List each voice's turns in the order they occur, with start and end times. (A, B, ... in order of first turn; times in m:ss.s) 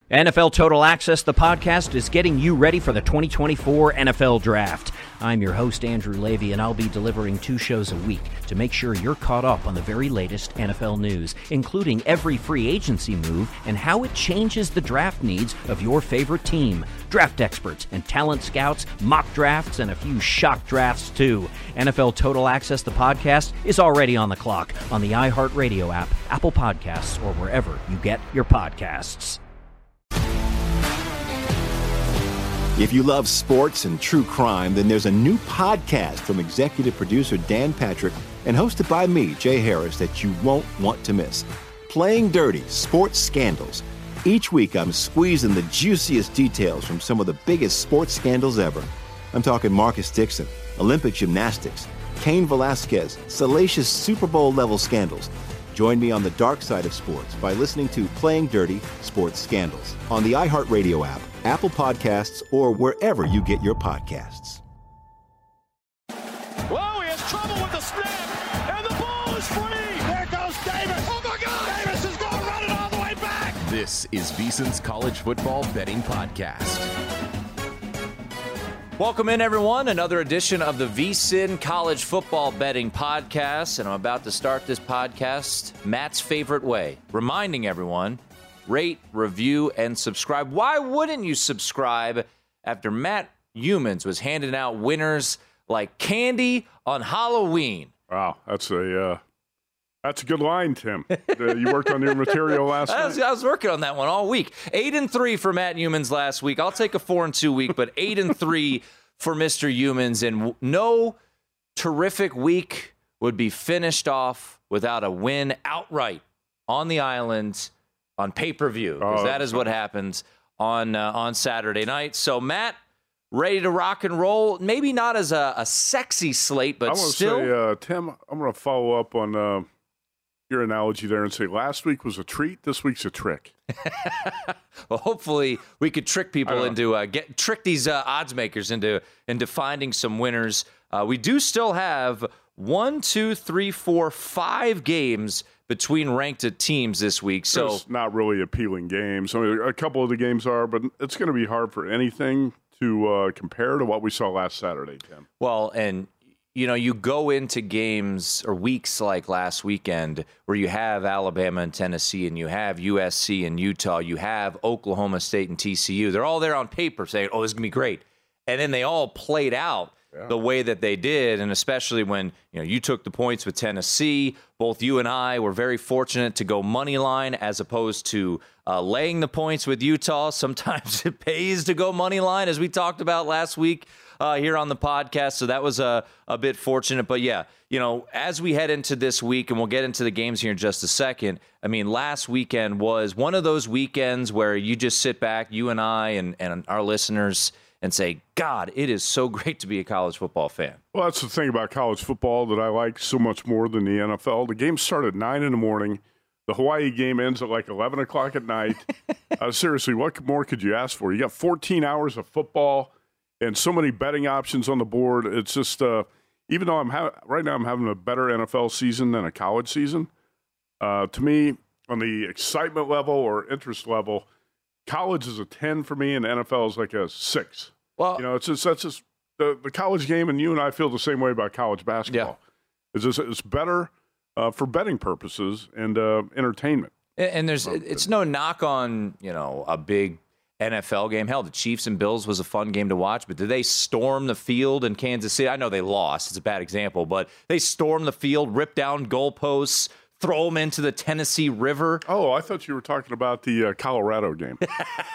0:00.1-0:29.4 A
0:32.8-1:04.6 B
1:06.7-1:08.0 C
1:08.7-1:13.6 C
1:13.6-1:16.9 D
1:19.0-1:37.9 E
1:38.1-1:39.2 F
1:40.0-1:43.2 F
1:41.2-1:51.2 E
1:51.8-2:02.8 E
1:59.0-1:59.7 F
2:03.3-2:07.5 E
2:06.9-2:09.7 F
2:10.5-2:13.5 F
2:13.8-2:27.8 E
2:16.5-2:16.8 F
2:27.5-2:35.2 F
2:35.4-3:20.8 E
3:20.9-3:40.1 F
3:40.8-3:44.3 F
3:44.9-3:52.4 F
3:48.0-3:48.2 E
3:52.9-3:56.9 F
3:57.2-4:12.0 E
4:12.1-4:14.6 F